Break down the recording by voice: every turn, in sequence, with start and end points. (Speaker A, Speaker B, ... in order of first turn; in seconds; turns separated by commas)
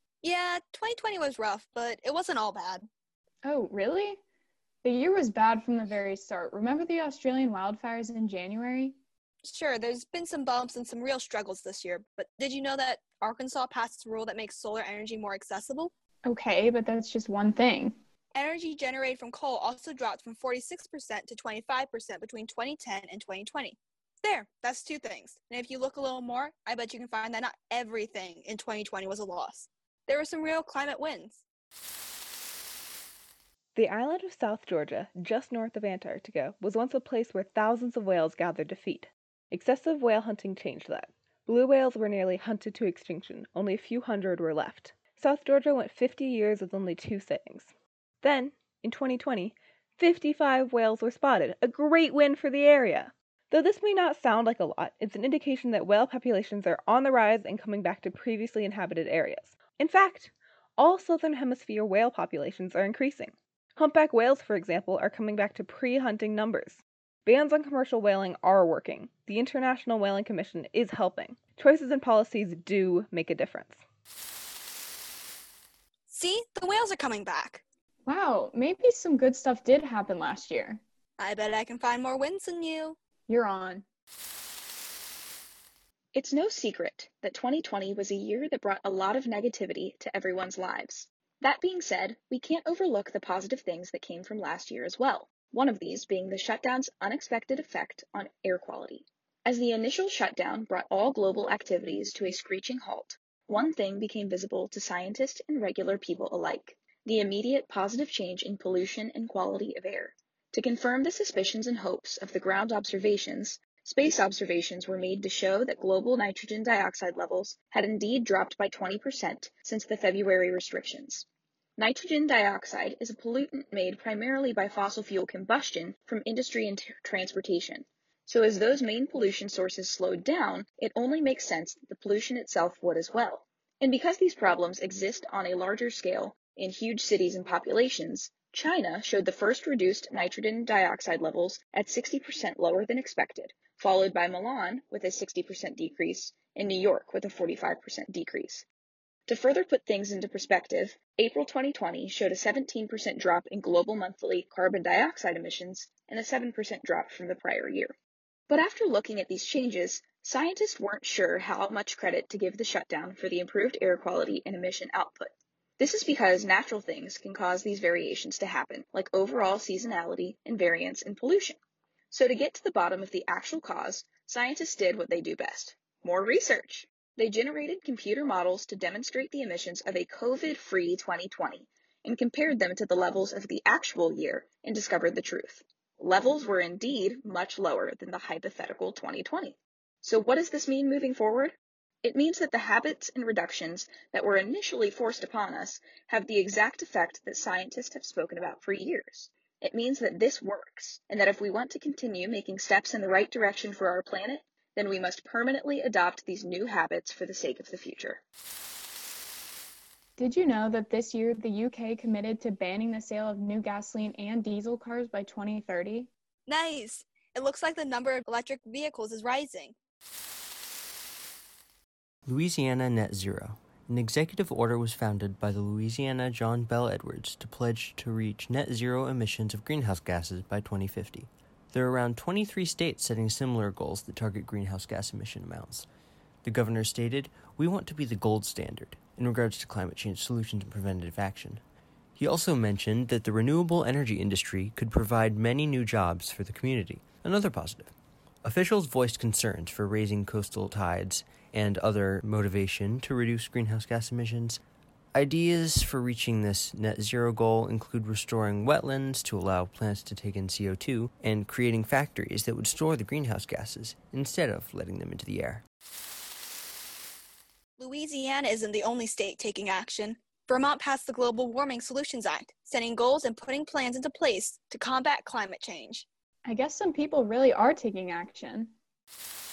Speaker A: 0.2-2.9, Speaker B: 3.5-4.2, Speaker B: 4.8-9.0, Speaker A: 9.4-15.9, Speaker B: 16.3-18.0, Speaker A: 18.4-31.4, Speaker C: 33.8-47.7, Speaker C: 48.2-73.8, Speaker A: 76.1-77.6, Speaker B: 78.1-80.8, Speaker A: 81.2-83.0, Speaker B: 83.3-83.8, Speaker D: 86.1-121.2, Speaker D: 121.8-148.7, Speaker D: 149.3-157.9, Speaker D: 158.5-171.6, Speaker D: 172.1-208.2, Speaker B: 210.2-216.1, Speaker A: 216.5-219.8, Speaker E: 222.3-235.9, Speaker E: 236.4-241.6, Speaker E: 242.2-247.9, Speaker E: 248.4-254.6, Speaker E: 255.1-265.6, Speaker A: 267.8-276.1, Speaker B: 276.4-278.7